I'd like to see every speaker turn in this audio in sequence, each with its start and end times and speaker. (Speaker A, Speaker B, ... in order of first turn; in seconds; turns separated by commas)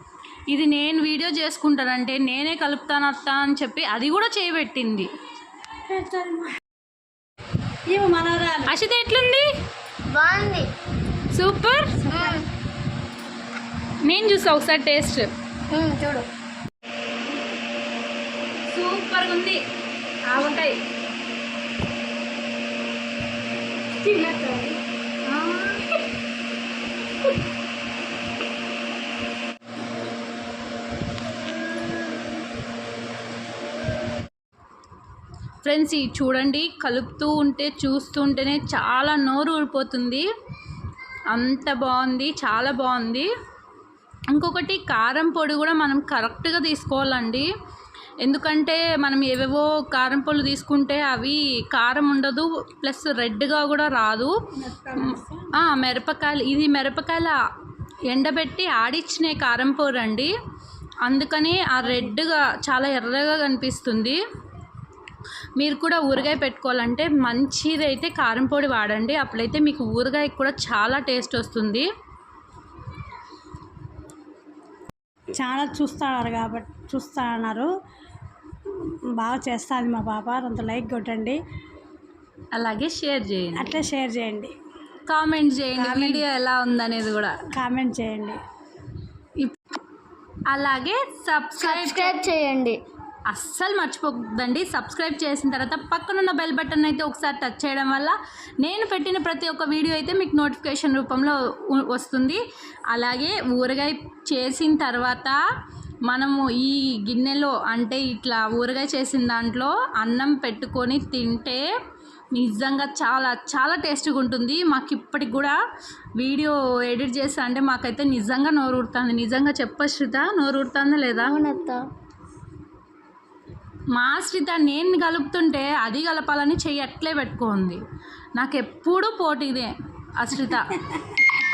Speaker A: 0.5-5.1, Speaker B: 5.9-6.5, Speaker B: 7.9-8.7, Speaker A: 8.7-9.5, Speaker C: 10.1-10.7, Speaker A: 11.3-12.0, Speaker B: 12.1-12.4, Speaker C: 12.1-12.5, Speaker A: 14.0-15.3, Speaker C: 15.7-16.3, Speaker A: 18.7-19.6, Speaker A: 20.3-20.8, Speaker B: 24.0-24.7, Speaker A: 25.3-25.8, Speaker A: 35.6-40.3, Speaker A: 41.3-43.3, Speaker A: 44.3-47.5, Speaker A: 48.2-54.3, Speaker B: 54.6-55.5, Speaker A: 55.6-57.4, Speaker A: 58.1-60.3, Speaker A: 61.0-64.2, Speaker B: 61.8-62.1, Speaker A: 65.6-71.9, Speaker B: 75.4-77.7, Speaker B: 78.7-81.4, Speaker A: 82.5-83.7, Speaker B: 83.6-84.5, Speaker A: 85.1-87.4, Speaker B: 85.8-86.2, Speaker B: 87.5-88.4, Speaker A: 89.4-89.7, Speaker A: 90.5-92.3, Speaker C: 91.6-92.8, Speaker A: 93.3-105.4, Speaker A: 106.1-111.6, Speaker A: 112.3-115.6, Speaker A: 116.2-121.4, Speaker C: 121.2-121.8, Speaker A: 123.9-127.8, Speaker A: 128.4-130.8, Speaker B: 130.5-131.2